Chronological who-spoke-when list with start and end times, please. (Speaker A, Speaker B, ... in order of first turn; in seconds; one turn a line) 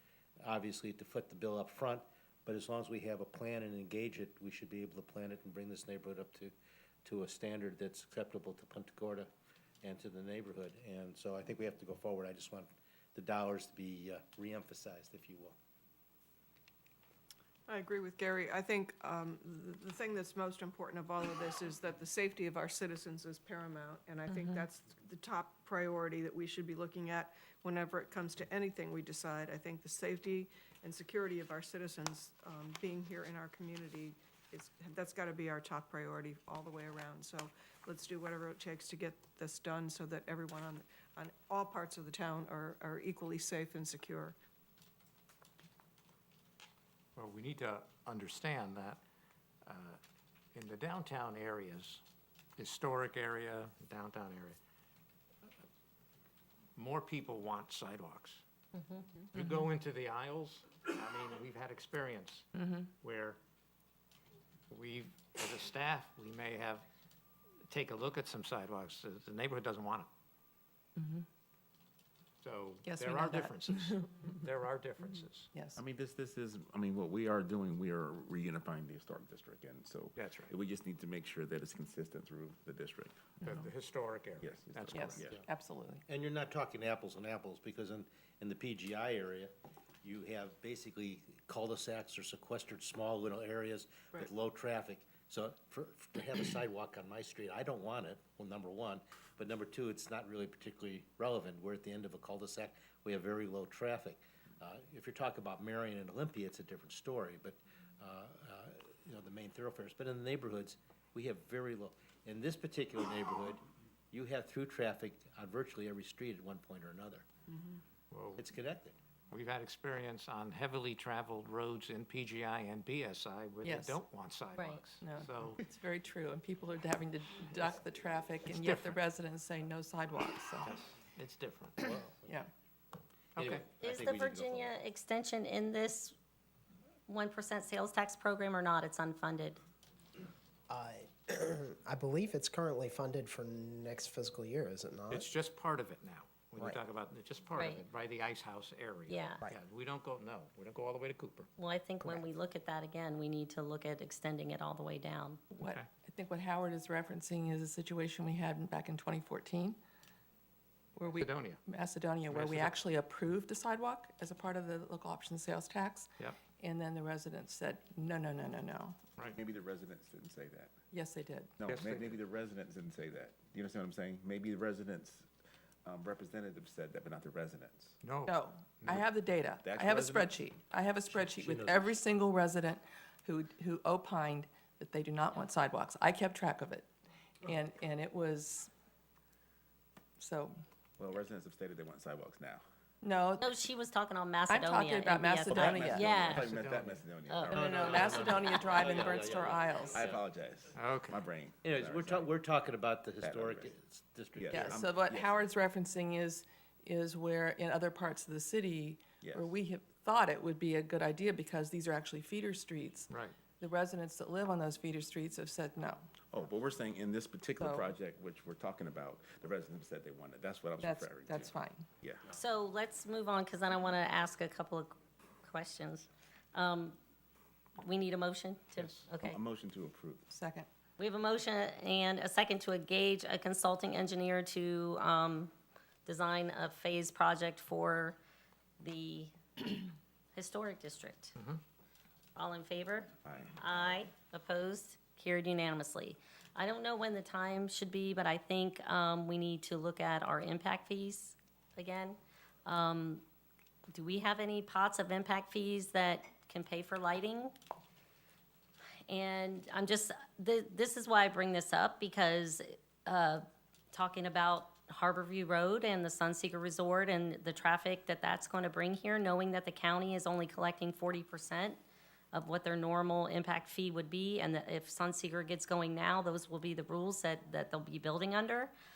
Speaker A: 0.4-6.5
Speaker A: 7.0-9.3
Speaker A: 9.8-15.6
Speaker B: 17.7-44.4
Speaker C: 24.3-24.6
Speaker D: 47.1-49.0
Speaker D: 49.6-50.0
Speaker D: 50.5-52.0
Speaker D: 52.6-54.6
Speaker D: 56.8-58.4
Speaker E: 58.7-59.0
Speaker D: 59.3-63.4
Speaker C: 62.5-62.8
Speaker D: 64.7-66.8
Speaker D: 67.7-70.1
Speaker C: 71.0-71.2
Speaker D: 72.4-75.5
Speaker C: 72.8-74.1
Speaker C: 75.5-75.8
Speaker F: 75.8-83.2
Speaker D: 80.2-80.5
Speaker D: 83.4-85.2
Speaker F: 84.4-85.3
Speaker C: 84.9-86.0
Speaker A: 86.1-89.5
Speaker A: 90.0-113.6
Speaker A: 114.1-117.2
Speaker D: 118.1-118.4
Speaker A: 118.3-118.9
Speaker D: 119.3-125.6
Speaker C: 123.6-124.0
Speaker C: 125.0-130.7
Speaker D: 128.5-129.0
Speaker D: 130.6-131.9
Speaker A: 131.8-132.1
Speaker D: 133.3-133.7
Speaker A: 133.4-134.8
Speaker E: 133.8-136.1
Speaker E: 137.1-139.6
Speaker G: 140.7-145.3
Speaker D: 145.1-151.5
Speaker G: 146.6-146.8
Speaker E: 147.6-147.8
Speaker E: 149.1-149.4
Speaker E: 151.6-155.4
Speaker C: 155.5-159.8
Speaker D: 155.6-155.9
Speaker C: 160.9-169.0
Speaker D: 161.1-161.6
Speaker D: 162.3-162.8
Speaker F: 169.3-170.7
Speaker C: 170.9-171.6
Speaker F: 171.6-175.3
Speaker D: 171.6-172.2
Speaker F: 175.8-177.9
Speaker D: 178.0-179.0
Speaker C: 178.2-186.9
Speaker F: 179.6-180.3
Speaker A: 181.1-181.8
Speaker C: 187.4-188.7
Speaker C: 190.2-190.6
Speaker F: 191.0-192.6
Speaker C: 193.0-193.5
Speaker E: 193.4-196.5
Speaker C: 194.5-196.2
Speaker F: 195.5-198.3
Speaker D: 196.3-197.1
Speaker E: 197.2-197.6
Speaker C: 197.5-200.0
Speaker A: 197.5-200.2
Speaker E: 198.3-199.0
Speaker F: 199.9-202.3
Speaker D: 200.8-201.2
Speaker A: 201.6-204.8
Speaker F: 203.2-203.7
Speaker F: 204.4-205.4
Speaker C: 204.5-216.1
Speaker F: 209.2-209.5
Speaker D: 213.1-213.4
Speaker F: 216.3-222.3
Speaker C: 217.6-217.9
Speaker C: 220.8-221.9
Speaker E: 222.3-227.0
Speaker E: 227.8-229.4
Speaker F: 229.2-230.3
Speaker C: 230.3-230.7
Speaker E: 231.0-235.5
Speaker E: 236.1-238.2
Speaker E: 238.8-241.3
Speaker E: 242.3-253.2
Speaker F: 243.2-244.0
Speaker E: 253.9-257.5
Speaker E: 259.1-271.8
Speaker E: 272.3-278.7